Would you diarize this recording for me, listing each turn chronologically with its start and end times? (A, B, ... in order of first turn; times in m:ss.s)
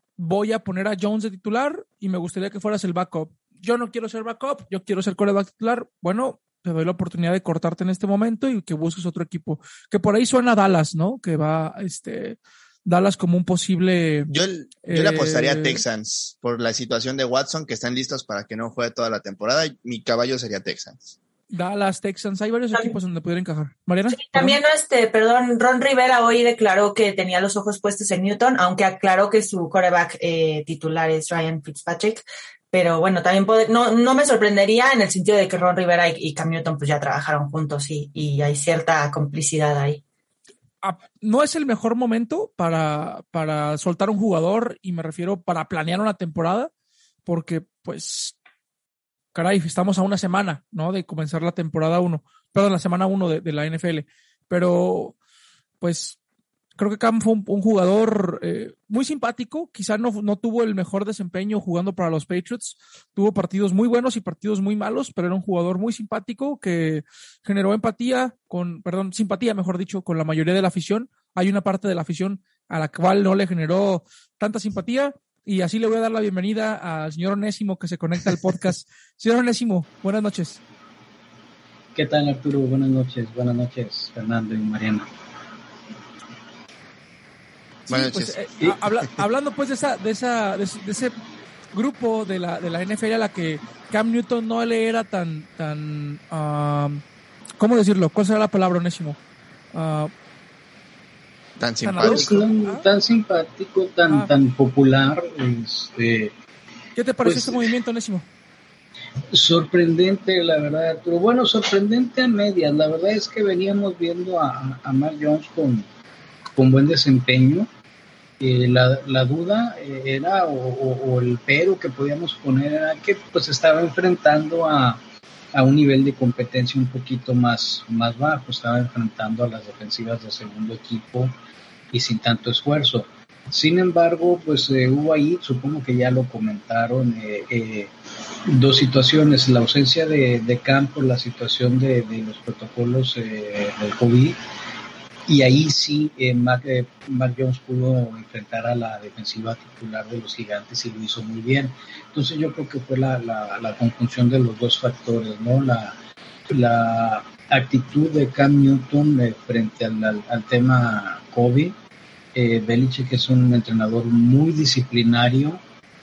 0:00.2-0:14.3 A
0:14.3-0:21.2 B
0:14.8-0:15.8 A
0:21.5-0:24.6 A
0:24.1-0:40.0 C
0:40.8-0:46.7 A
0:47.2-0:48.4 A
0:49.3-0:55.2 A
0:55.8-0:56.2 A
0:56.8-1:20.6 A
1:21.9-1:25.1 D
1:27.9-1:31.1 A
1:27.9-1:28.7 B
1:31.7-1:37.0 A
1:37.6-1:39.2 A
1:39.7-1:40.1 A
1:41.6-1:42.4 B
1:41.8-1:42.8 A
1:42.0-1:46.3 D
1:46.9-1:48.3 A
1:47.2-1:47.6 D
1:49.3-1:55.9 D
1:56.6-1:57.7 D
1:58.4-2:05.0 D
2:05.5-2:11.3 D
2:11.9-2:17.9 D
2:18.4-2:24.4 D
2:25.3-2:36.0 D
2:36.5-2:41.7 D
2:42.3-2:45.6 D